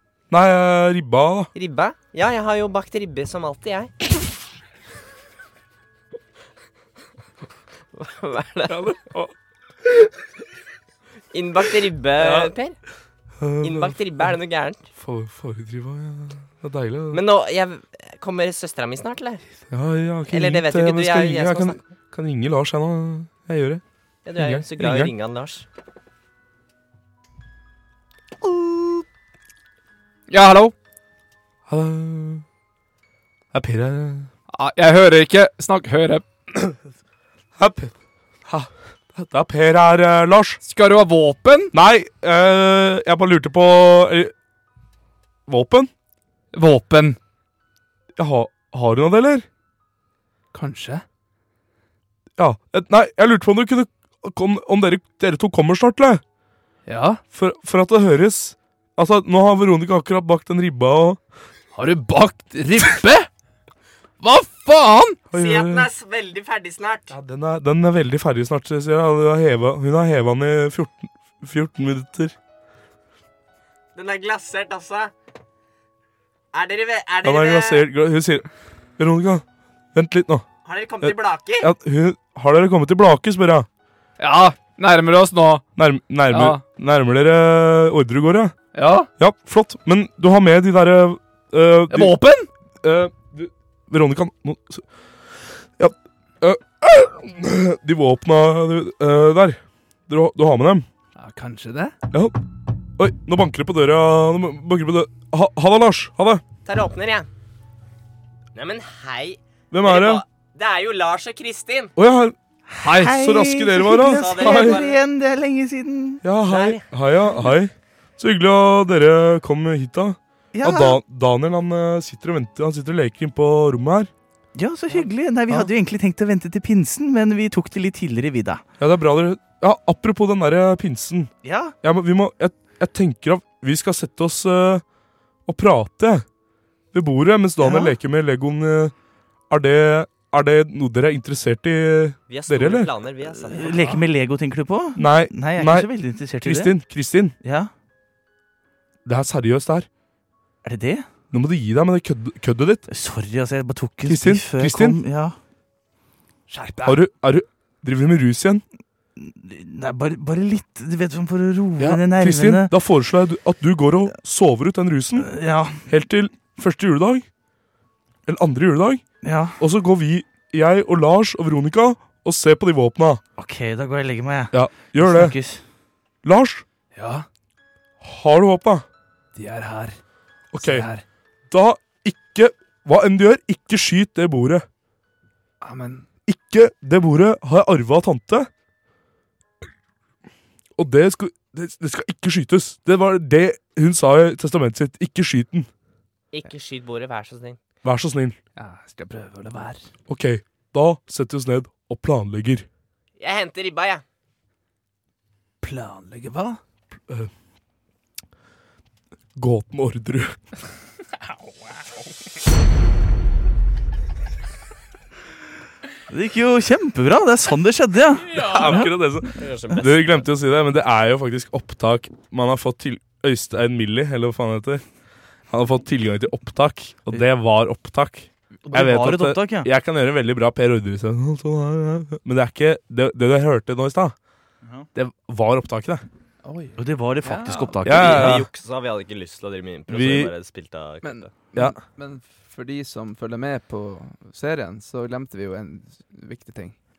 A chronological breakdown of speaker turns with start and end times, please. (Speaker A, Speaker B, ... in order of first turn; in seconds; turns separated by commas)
Speaker A: 0.3-1.5, Speaker B: 1.5-3.9, Speaker B: 7.9-8.8, Speaker A: 8.7-9.3, Speaker B: 11.3-12.8, Speaker A: 12.2-12.5, Speaker A: 13.4-14.3, Speaker B: 13.6-14.8, Speaker A: 14.9-17.2, Speaker B: 17.1-19.4, Speaker A: 19.7-23.8, Speaker B: 20.3-21.8, Speaker B: 24.2-25.6, Speaker A: 24.4-25.1, Speaker B: 28.7-29.0, Speaker C: 30.3-30.7, Speaker A: 31.7-32.4, Speaker A: 33.5-34.3, Speaker C: 34.5-36.2, Speaker A: 37.6-37.9, Speaker A: 38.4-40.6, Speaker C: 40.6-41.7, Speaker A: 41.7-44.3, Speaker A: 45.5-45.9, Speaker C: 46.5-47.2, Speaker A: 48.1-49.5, Speaker C: 50.5-51.0, Speaker A: 52.4-56.2, Speaker C: 56.9-57.2, Speaker A: 57.3-61.2, Speaker C: 61.7-63.3, Speaker C: 64.2-65.2, Speaker A: 65.3-65.9, Speaker B: 65.3-67.1, Speaker A: 67.1-72.3, Speaker B: 73.9-75.1, Speaker B: 76.5-77.8, Speaker A: 77.2-80.5, Speaker B: 80.6-81.7, Speaker A: 81.0-83.7, Speaker C: 84.2-85.6, Speaker A: 85.8-88.5, Speaker C: 86.3-86.6, Speaker C: 88.7-89.1, Speaker A: 89.2-92.2, Speaker C: 91.9-92.5, Speaker A: 92.8-94.8, Speaker A: 95.8-100.9, Speaker C: 101.2-102.0, Speaker A: 102.1-102.4, Speaker A: 103.0-106.4, Speaker B: 106.7-107.3, Speaker B: 108.5-111.9, Speaker A: 109.7-110.2, Speaker A: 112.0-114.8, Speaker D: 112.7-116.2, Speaker B: 114.0-115.0, Speaker A: 116.2-124.1, Speaker B: 116.5-116.8, Speaker D: 120.5-121.0, Speaker D: 124.5-128.6, Speaker A: 128.8-131.3, Speaker D: 131.4-131.7, Speaker A: 131.8-134.8, Speaker A: 135.4-136.2, Speaker A: 136.9-138.9, Speaker D: 137.6-137.9, Speaker A: 139.5-142.9, Speaker B: 142.3-143.9, Speaker D: 143.2-146.7, Speaker A: 144.9-145.9, Speaker A: 146.4-147.3, Speaker D: 147.4-147.7, Speaker A: 149.0-149.9, Speaker D: 150.6-151.1, Speaker A: 151.3-152.8, Speaker D: 152.9-155.3, Speaker A: 154.0-155.0, Speaker C: 156.5-157.0, Speaker A: 156.8-158.6, Speaker D: 159.2-162.7, Speaker A: 161.8-165.3, Speaker D: 165.2-165.8, Speaker A: 165.9-167.2, Speaker A: 168.3-169.0, Speaker D: 169.2-169.6, Speaker A: 169.6-173.2, Speaker D: 173.4-175.6, Speaker A: 174.5-175.3, Speaker A: 176.2-176.6, Speaker C: 176.9-177.2, Speaker A: 178.0-178.8, Speaker C: 179.3-180.0, Speaker A: 180.5-180.9, Speaker C: 180.6-181.0, Speaker A: 181.5-184.7, Speaker C: 185.6-186.1, Speaker A: 186.3-188.5, Speaker A: 190.8-195.7, Speaker B: 196.3-197.6, Speaker A: 197.8-198.4, Speaker C: 198.6-199.8, Speaker A: 200.1-202.7, Speaker B: 203.2-204.0, Speaker C: 205.6-206.6, Speaker A: 209.3-210.4, Speaker D: 216.1-218.9, Speaker C: 218.3-218.8, Speaker A: 218.3-224.8, Speaker B: 219.3-220.2, Speaker A: 225.5-234.2, Speaker D: 228.7-229.7, Speaker D: 234.6-234.9, Speaker A: 234.9-236.1, Speaker C: 236.4-237.8, Speaker D: 236.8-238.4, Speaker A: 237.8-238.5, Speaker B: 237.8-241.3, Speaker A: 239.9-240.3, Speaker C: 241.0-246.8